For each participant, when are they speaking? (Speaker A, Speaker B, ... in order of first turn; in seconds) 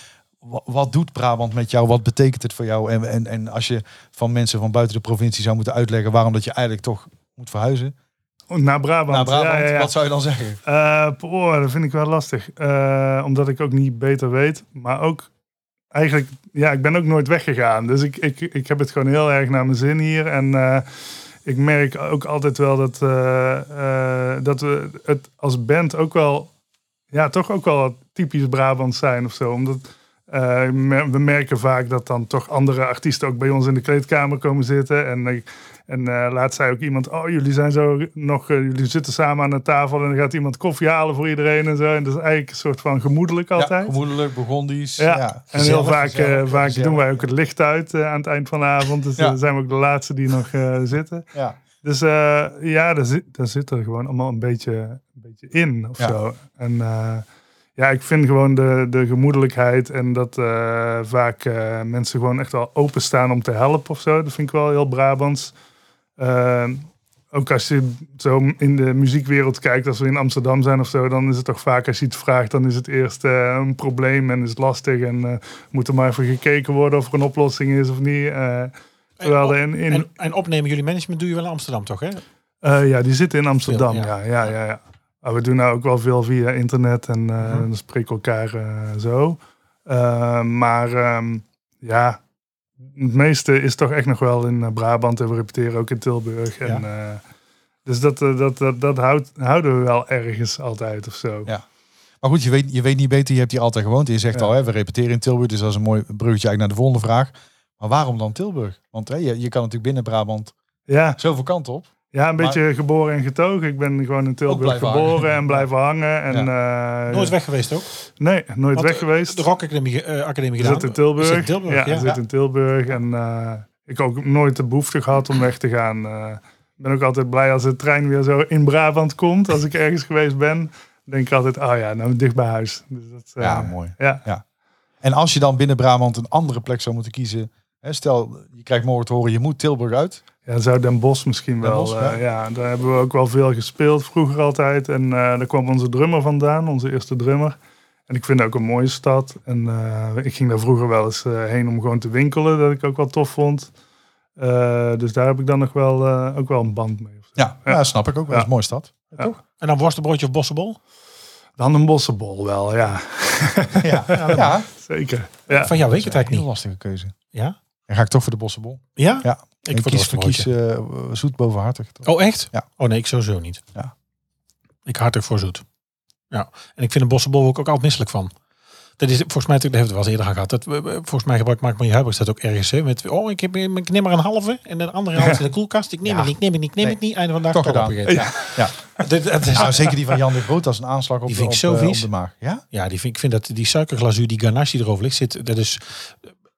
Speaker A: 0.4-7.9, 9.1-10.6, 43.5-47.2, 102.2-110.5, 111.2-112.6, 114.5-115.7, 133.4-134.4, 135.0-140.2, 141.6-142.2, 157.4-159.3, 163.8-164.7, 165.8-167.1, 167.9-172.6, 186.0-188.7, 189.5-192.6
Speaker B: 8.5-9.9, 10.7-15.3, 15.9-20.9, 21.4-26.5, 27.1-44.0, 45.0-51.3, 51.8-57.2, 57.8-65.5, 66.2-80.1, 82.6-92.2, 92.9-97.2, 97.8-101.5, 110.9-111.2, 112.1-117.3, 118.2-119.4, 120.6-134.2, 140.4-147.6, 148.1-153.7, 154.4-158.5, 161.6-165.7, 188.1-188.6
Speaker C: 45.5-46.0, 79.2-82.2, 83.7-84.1, 87.4-87.7, 117.1-117.9, 118.7-122.1, 159.6-160.8, 164.1-164.5, 165.5-166.4, 169.0-170.5, 172.0-173.6, 174.8-175.6, 176.3-178.3, 179.0-190.0, 191.3-192.1, 192.7-196.3